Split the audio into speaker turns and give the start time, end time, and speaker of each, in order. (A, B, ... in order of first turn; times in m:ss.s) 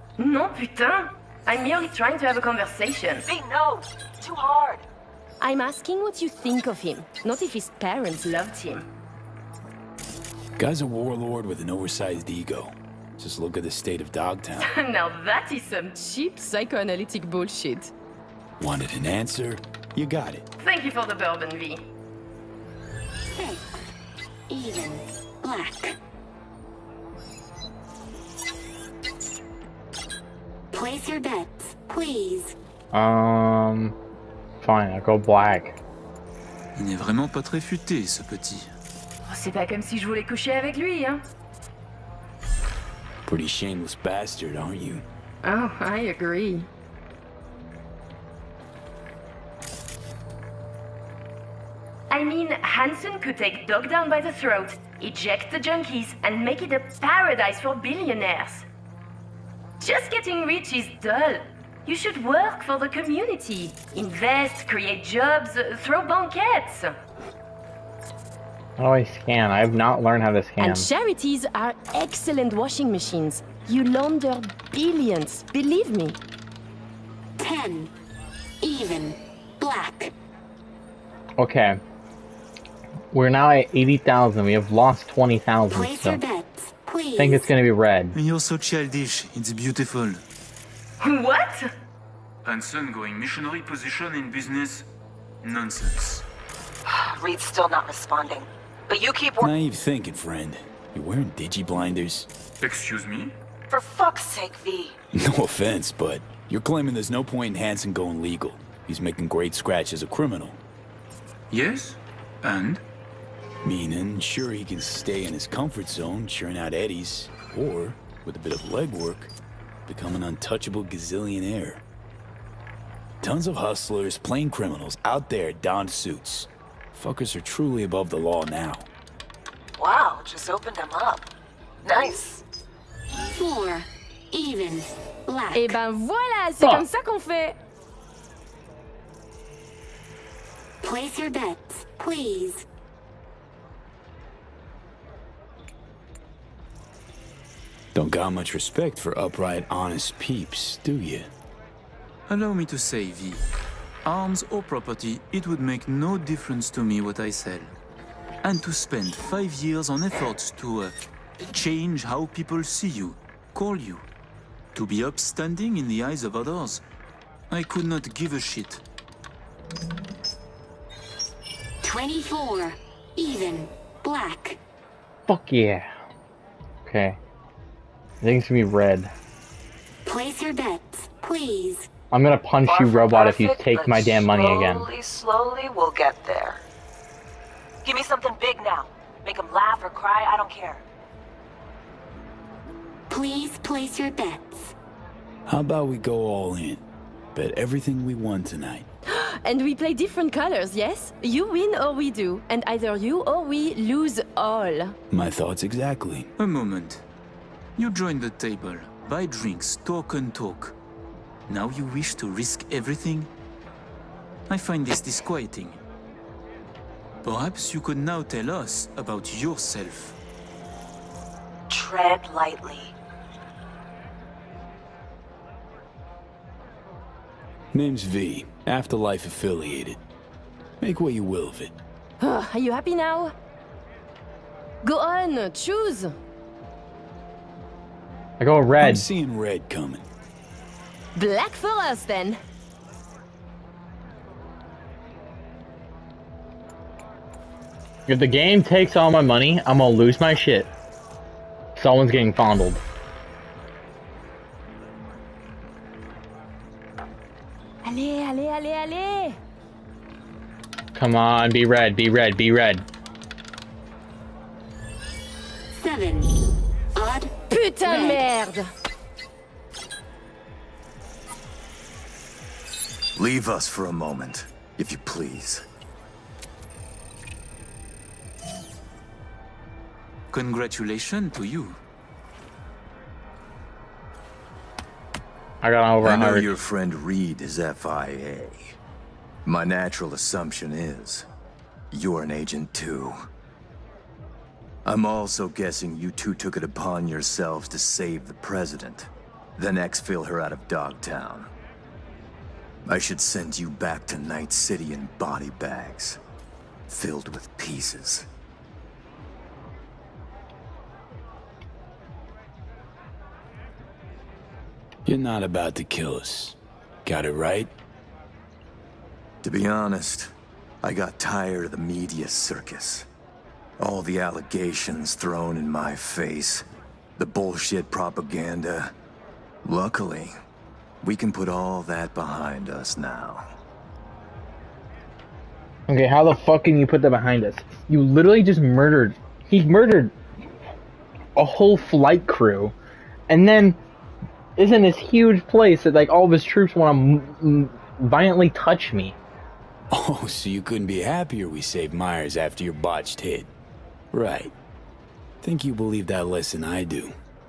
0:00.2-0:03.3 A
0:03.2-0:04.8 B
0:05.4-0:08.9 A
0:10.6-0:14.7 C
0:14.6-0:17.9 A
0:18.6-0:20.4 C
0:20.6-0:21.9 A
0:23.3-0:23.9 D
0:24.5-0:26.0 D
0:30.7-0:32.5 D
0:32.9-0:34.0 E
0:34.6-0:35.8 E
0:36.8-0:38.7 F
0:39.2-0:41.2 A
0:43.2-0:45.0 C
0:45.4-0:46.7 A
0:52.1-0:58.6 A
0:59.8-1:07.0 A
1:08.8-1:10.9 E
1:10.6-1:16.2 A
1:17.4-1:17.9 D
1:18.6-1:20.1 D
1:21.4-1:21.8 E
1:23.1-1:26.2 E
1:25.7-1:27.5 D
1:27.2-1:28.1 E
1:28.1-1:30.2 F
1:31.0-1:31.7 A
1:32.4-1:34.8 F
1:35.4-1:36.2 F
1:36.8-1:39.5 B
1:39.4-1:42.3 C
1:42.6-1:43.3 F
1:43.7-1:45.0 B
1:45.1-1:50.6 C
1:51.5-1:52.8 F
1:53.6-1:59.3 C
1:59.9-2:01.8 C
2:03.2-2:08.9 C
2:09.8-2:11.3 B
2:11.8-2:12.4 B
2:13.2-2:15.8 D
2:15.5-2:17.6 A
2:20.8-2:22.6 D
2:27.9-2:31.3 C
2:32.3-2:33.4 F
2:34.0-2:37.7 F
2:38.4-2:44.0 F
2:44.7-2:46.8 F
2:47.5-2:48.8 F
2:51.8-2:54.6 D
2:55.3-2:55.9 E
2:56.8-2:57.2 E
2:58.2-2:59.1 E
3:00.0-3:01.9 D
3:02.1-3:04.9 E
3:02.6-3:06.6 B
3:07.8-3:10.8 B
3:13.1-3:14.7 D
3:15.5-3:16.8 C
3:17.3-3:18.9 C
3:19.1-3:25.0 A
3:25.1-3:26.3 C
3:26.4-3:27.0 F
3:27.8-3:30.8 F
3:31.5-3:33.3 F
3:34.5-3:35.8 F
3:37.2-3:40.2 F
3:41.7-3:42.9 B
3:47.7-3:50.0 C
3:50.8-3:51.7 C
3:52.2-3:53.3 A
3:54.8-3:56.2 A
3:58.4-3:59.1 E
3:58.8-4:00.0 C
4:01.1-4:02.4 A
4:08.1-4:10.7 E
4:11.8-4:12.8 E
4:17.8-4:19.4 A
4:20.9-4:22.8 E
4:25.7-4:26.4 D
4:26.9-4:27.3 D
4:27.5-4:28.7 A
4:27.8-4:28.2 D
4:33.2-4:35.6 G
4:40.3-4:41.8 F
4:45.6-4:46.5 E
4:46.0-4:48.8 G
4:49.4-4:51.3 G
4:51.9-4:53.2 G
4:54.8-5:01.5 G
5:02.8-5:06.2 G
5:06.9-5:08.3 G
5:15.0-5:17.7 C
5:19.4-5:20.3 G
5:20.8-5:23.1 G
5:23.8-5:26.6 G
5:27.2-5:28.9 G
5:29.6-5:30.3 G
5:31.0-5:33.4 G
5:35.9-5:40.1 E
5:41.3-5:42.7 E
5:43.3-5:43.8 E
5:44.6-5:49.2 E
5:49.9-5:53.5 C
5:54.1-5:54.5 C
5:55.4-5:57.1 C